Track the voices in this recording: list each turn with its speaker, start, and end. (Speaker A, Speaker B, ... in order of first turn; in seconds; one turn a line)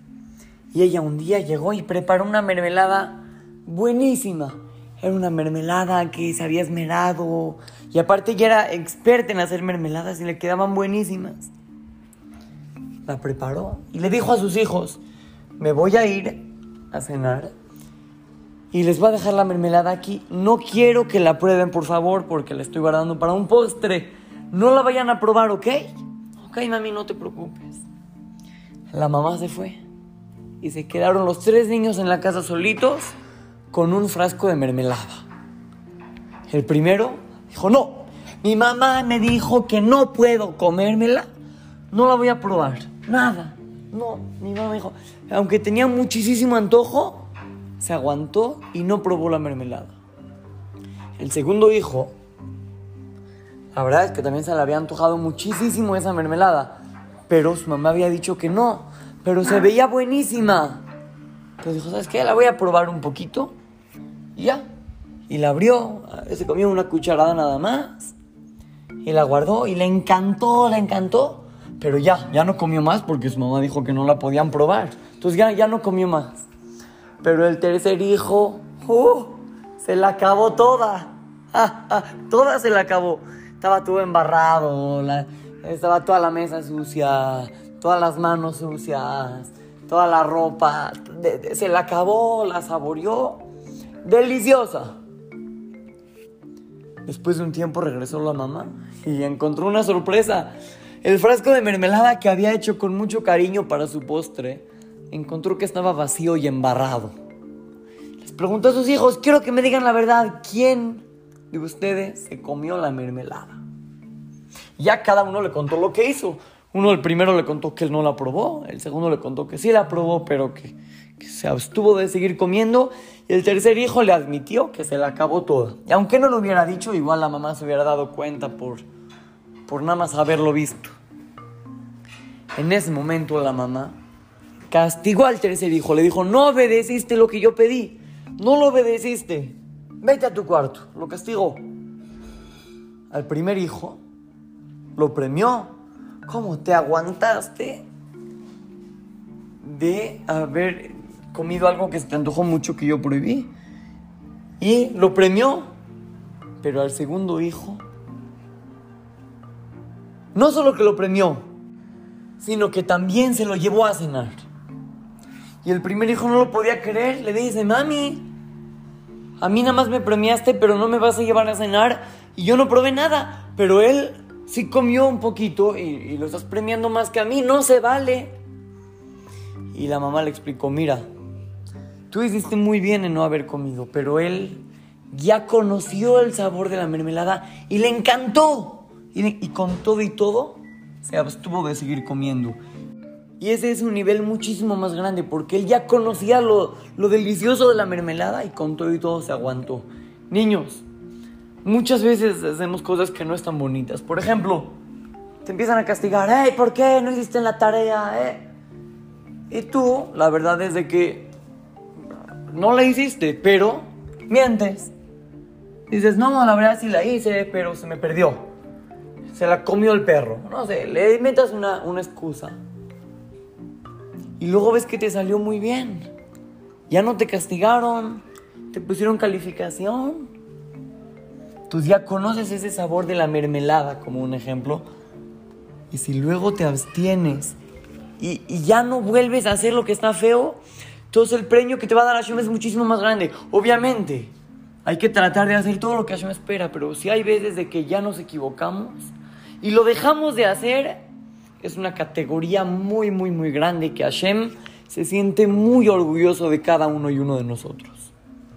Speaker A: 0.7-11.5
Speaker A: 13.1-15.0
Speaker A: 15.6-17.5
Speaker A: 18.7-27.9
Speaker A: 28.9-29.8
Speaker A: 30.6-33.2
Speaker A: 33.7-35.3
Speaker A: 36.5-41.3
Speaker A: 41.9-49.9
Speaker A: 51.2-52.1
Speaker A: 53.7-60.9
Speaker A: 61.6-63.6
Speaker A: 64.3-64.7
Speaker A: 65.3-68.2
Speaker A: 69.0-76.5
Speaker A: 77.2-93.5
Speaker A: 94.0-95.0
Speaker A: 97.0-107.2
Speaker A: 108.2-113.6
Speaker A: 114.8-128.8
Speaker A: 129.7-130.9
Speaker A: 132.6-134.0
Speaker A: 134.7-141.6
Speaker A: 143.1-144.0
Speaker A: 145.0-147.8
Speaker A: 149.6-153.5
Speaker A: 154.6-155.7
Speaker A: 156.6-157.8
Speaker A: 160.3-161.4
Speaker A: 162.4-164.5
Speaker A: 165.6-168.3
Speaker A: 169.4-178.3
Speaker A: 179.7-181.1
Speaker A: 182.1-192.6
Speaker A: 193.4-200.8
Speaker A: 201.6-204.8
Speaker A: 205.4-208.5
Speaker A: 209.5-211.3
Speaker A: 212.5-214.9
Speaker A: 215.9-218.5
Speaker A: 219.3-222.6
Speaker A: 224.4-226.1
Speaker A: 226.9-230.3
Speaker A: 231.7-234.9
Speaker A: 235.9-237.6
Speaker A: 238.2-244.3
Speaker A: 244.8-251.0
Speaker A: 251.6-258.1